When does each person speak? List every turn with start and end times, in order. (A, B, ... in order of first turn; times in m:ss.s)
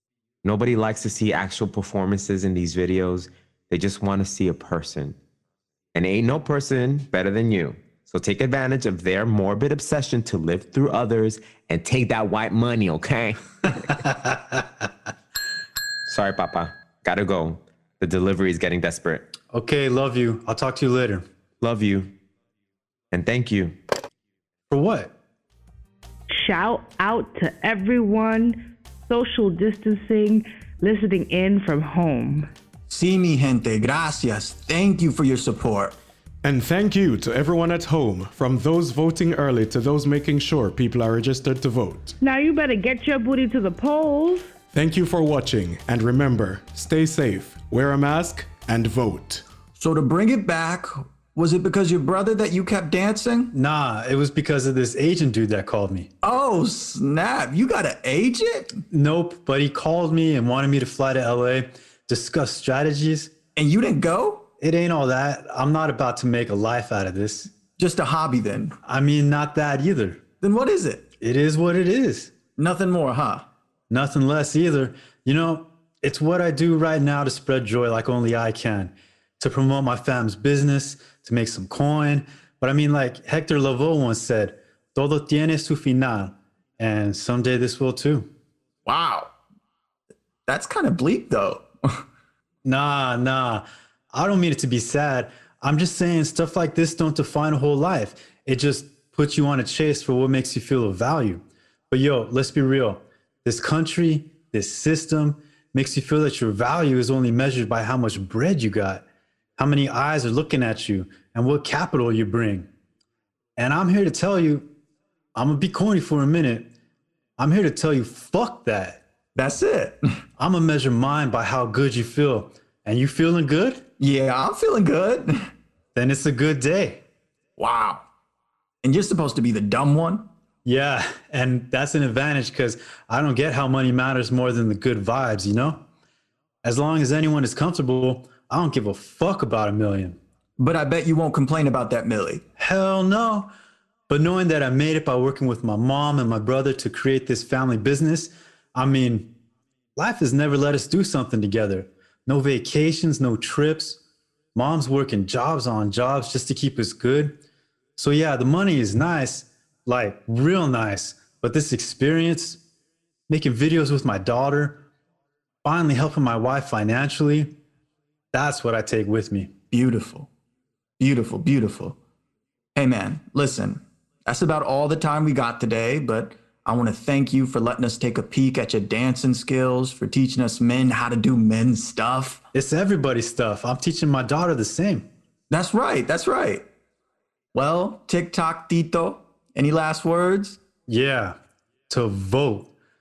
0:00.4-0:05.2 A
0:05.9-0:13.9 A
0:14.0-0:14.6 B
0:16.1-0:19.2 A
0:19.5-0:21.2 B
0:21.6-0:22.1 A
0:23.1-0:23.7 A
0:24.7-0:25.1 B
0:26.3-0:32.5 C
0:32.9-0:35.9 D
0:36.4-0:42.1 E
0:42.2-0:44.5 C
0:44.7-0:49.4 E
0:49.8-0:53.5 D
0:53.5-0:56.1 B
0:56.2-0:58.8 D
0:58.9-1:03.3 B
1:03.6-1:04.4 D
1:04.6-1:07.5 B
1:07.8-1:08.7 D
1:08.8-1:10.2 B
1:10.4-1:11.0 D
1:11.2-1:12.3 B
1:12.6-1:13.5 D
1:13.9-1:28.3 B
1:28.8-1:29.3 D
1:30.4-1:32.0 D
1:32.6-1:49.0 B
1:49.6-1:52.7 B
1:53.6-1:54.7 B
1:55.3-1:56.7 B
1:57.4-1:59.0 B
1:59.3-2:00.0 D
2:00.4-2:03.8 B
2:04.0-2:05.5 D
2:05.9-2:07.0 B
2:07.6-2:08.0 D
2:08.8-2:10.3 D
2:10.6-2:15.8 B
2:16.6-2:20.2 B
2:20.6-2:22.4 D
2:22.6-2:23.5 B
2:24.1-2:29.3 B
2:30.0-2:34.0 B
2:34.5-2:37.3 B
2:38.0-2:42.6 B
2:43.3-2:44.8 B
2:45.6-2:47.5 B
2:48.3-2:49.5 B
2:49.7-2:50.3 D
2:51.0-2:52.0 D
2:52.7-3:02.4 D
3:02.5-3:05.1 B
3:05.5-3:06.6 D
3:07.5-3:10.6 D
3:10.9-3:11.4 B
3:11.9-3:12.7 B